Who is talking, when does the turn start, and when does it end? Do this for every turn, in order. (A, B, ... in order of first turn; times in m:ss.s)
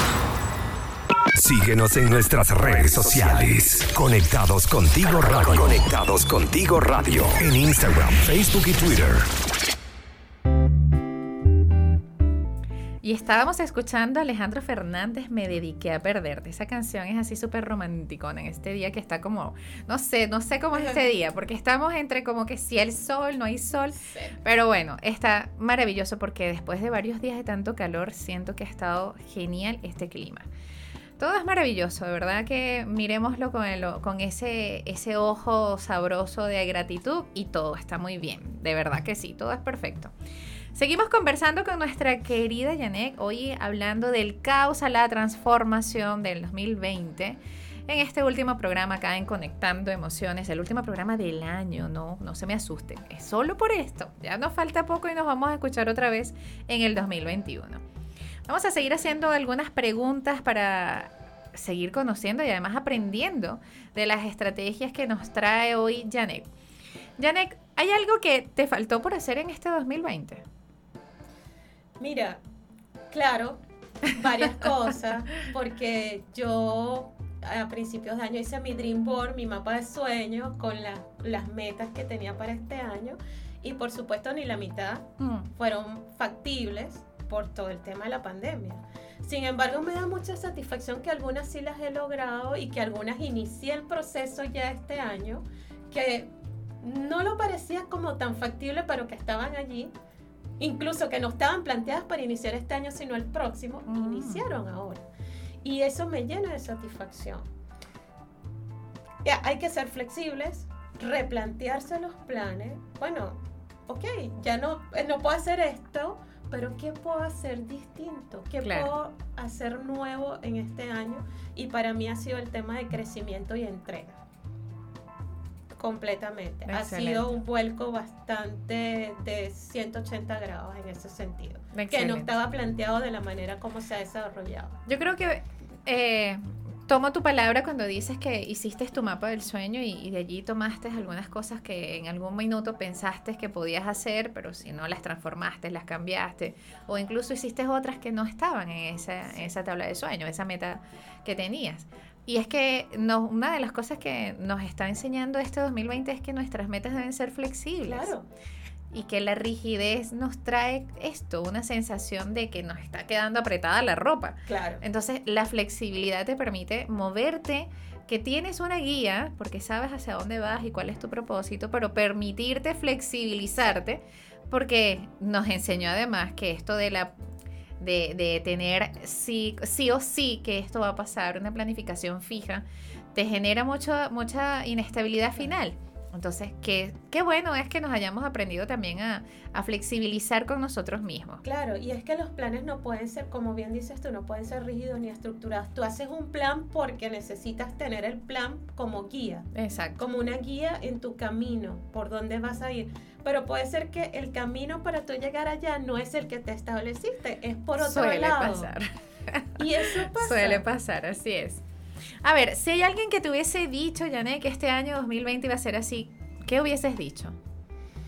0:01.4-0:09.3 A
0:13.0-0:30.5 B
0:23.9-0:24.4 C
0:31.2-0:40.1 B
0:40.7-0:57.8 B
0:58.5-1:06.5 B
1:07.2-1:10.4 B
1:12.0-1:12.4 C
1:13.1-1:39.9 C
1:25.2-1:25.5 B
1:40.6-1:45.1 C
1:43.9-1:44.4 B
1:45.6-1:47.5 C
1:49.2-2:04.2 C
1:58.6-1:58.9 B
2:05.8-2:14.8 C
2:06.7-2:07.3 B
2:11.7-2:12.4 B
2:14.9-2:38.1 B
2:29.3-2:29.5 C
2:37.8-2:38.3 C
2:38.9-2:57.1 B
2:44.5-2:44.8 C
2:57.8-3:11.4 B
3:11.4-3:28.7 C
3:19.5-3:20.0 B
3:27.8-3:31.6 B
3:29.6-3:30.6 C
3:32.2-3:37.4 B